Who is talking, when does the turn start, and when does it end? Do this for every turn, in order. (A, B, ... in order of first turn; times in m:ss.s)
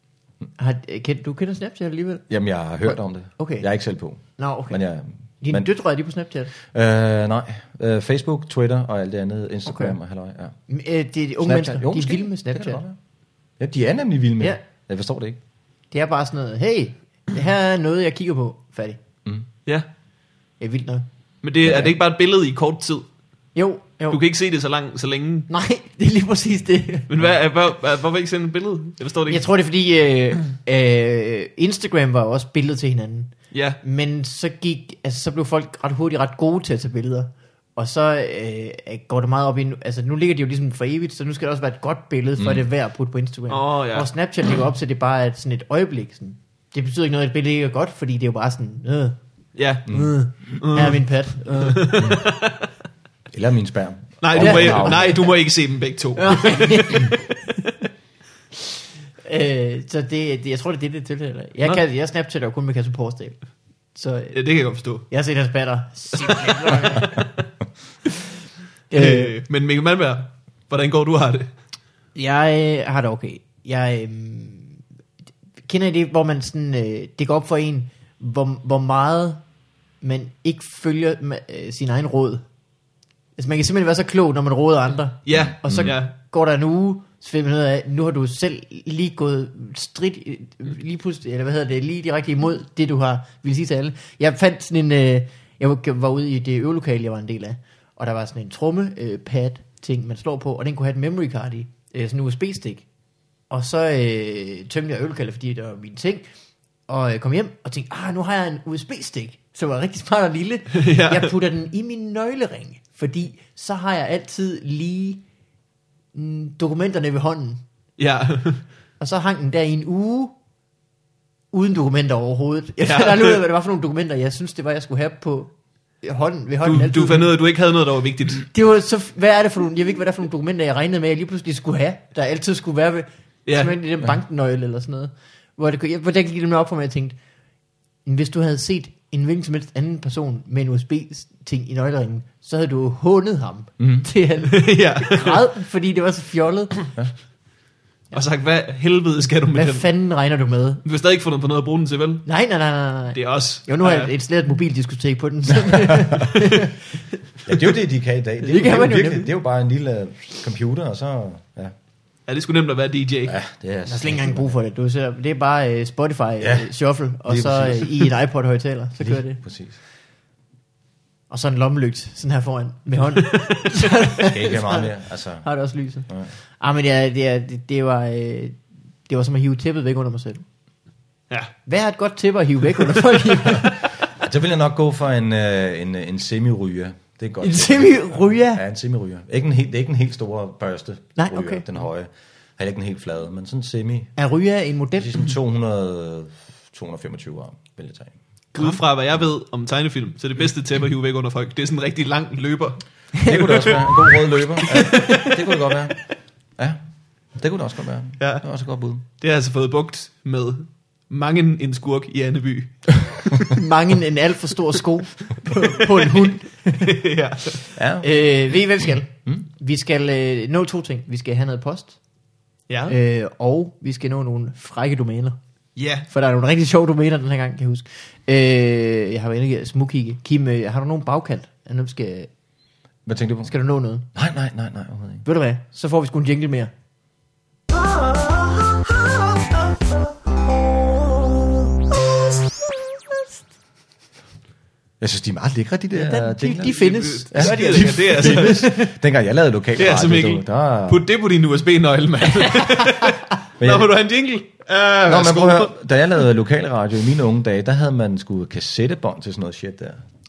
0:00.6-0:02.2 A
0:02.3-0:05.7 B
0:02.8-0:03.7 A
0:04.4-0:04.8 A
0:05.4-0:06.5 A
0:06.6-0:10.6 B
0:09.7-0:10.0 A
0:10.7-0:12.8 A
0:11.4-0:13.0 B
0:13.6-0:15.4 B
0:15.9-0:19.0 A
0:20.6-0:21.0 A
0:21.4-0:23.1 C
0:21.6-0:22.0 B
0:23.6-0:24.2 A
0:24.1-0:25.5 C
0:25.5-0:27.1 A
0:27.1-0:29.4 C
0:29.3-0:49.2 A
0:33.5-0:33.8 C
0:43.5-0:44.1 C
0:49.6-0:52.7 C
0:49.9-0:50.1 B
0:49.9-0:52.0 A
0:53.3-0:55.1 B
0:54.2-0:57.2 C
0:54.4-0:55.3 A
0:56.2-0:57.3 A
0:59.2-1:03.4 A
1:04.0-1:04.4 A
1:04.3-1:05.1 C
1:05.1-1:07.3 A
1:06.2-1:07.0 C
1:08.9-1:09.4 A
1:08.9-1:11.5 C
1:12.2-1:14.8 A
1:15.7-1:19.4 A
1:20.0-1:22.4 A
1:23.4-1:42.8 A
1:25.3-1:26.1 C
1:25.3-1:25.9 B
1:43.5-1:46.2 A
1:46.9-1:55.2 A
1:50.7-1:51.3 C
1:56.1-1:57.6 A
1:58.0-1:58.6 C
1:59.0-2:00.3 A
2:01.5-2:07.3 A
2:02.8-2:03.4 C
2:06.6-2:08.5 C
2:08.5-2:17.2 A
2:13.5-2:13.7 C
2:18.0-2:26.8 A
2:23.8-2:24.1 B
2:24.5-2:25.4 C
2:28.1-2:29.9 C
2:29.5-2:30.8 A
2:30.8-2:32.3 C
2:32.3-2:37.0 A
2:33.1-2:34.1 C
2:35.7-2:36.2 B
2:37.5-2:41.7 B
2:38.4-2:39.3 A
2:42.3-2:43.4 C
2:43.2-2:44.6 B
2:43.9-2:49.4 A
2:46.4-2:48.1 B
2:49.0-2:49.8 B
2:51.3-2:54.9 A
2:53.2-2:53.7 C
2:54.2-2:55.5 B
2:55.4-3:00.4 A
3:01.7-3:03.9 A
3:04.2-3:14.2 B
3:07.4-3:08.6 A
3:11.2-3:11.7 A
3:14.2-3:15.2 A
3:15.0-3:18.2 B
3:18.6-3:18.8 A
3:18.6-3:23.8 C
3:23.2-3:23.7 A
3:23.2-3:26.0 B
3:24.7-3:25.3 A
3:27.4-3:29.0 B
3:28.2-3:28.5 C
3:29.0-3:33.5 C
3:33.5-3:36.9 A
3:35.8-3:37.6 C
3:37.8-3:38.1 B
3:38.0-3:42.0 A
3:42.7-3:43.0 C
3:42.9-3:45.4 A
3:45.8-3:46.1 C
3:46.1-3:52.3 A
3:53.1-3:53.5 B
3:53.5-3:54.1 A
3:54.1-3:55.3 B
3:55.3-3:56.7 A
4:05.0-4:06.8 B
4:05.9-4:08.9 A
4:06.7-4:08.6 C
4:07.3-4:11.1 B
4:09.8-4:15.7 C
4:12.8-4:13.1 A
4:13.6-4:13.9 B
4:15.1-4:20.0 B